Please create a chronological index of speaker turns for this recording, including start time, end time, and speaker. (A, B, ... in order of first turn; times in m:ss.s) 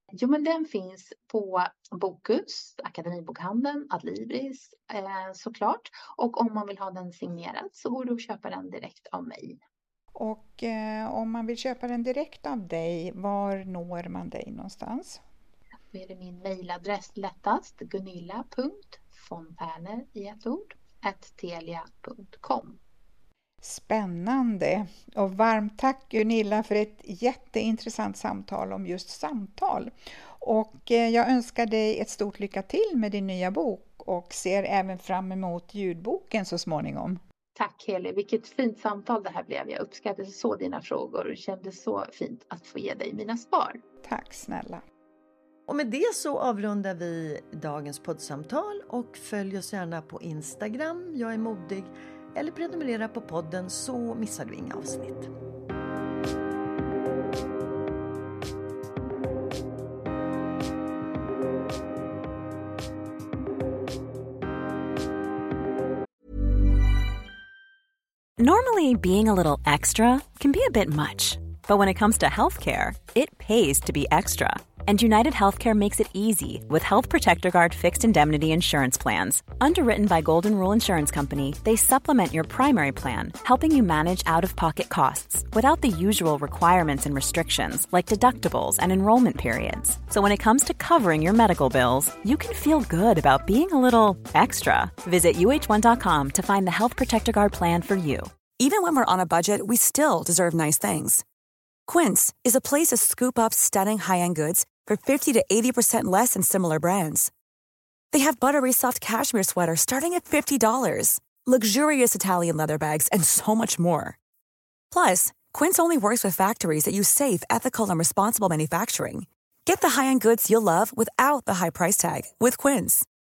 0:00.2-0:09.6 A
0:10.1-0:15.2 B
0:15.9-0:22.8 A
0:23.6-0:37.2 B
0:37.6-0:43.8 A
0:44.0-0:44.8 B
0:45.7-0:55.3 C
1:08.4-1:38.4 D
1:38.6-1:41.2 E
1:41.9-1:47.3 E
1:48.1-1:54.2 E
1:54.9-2:03.0 E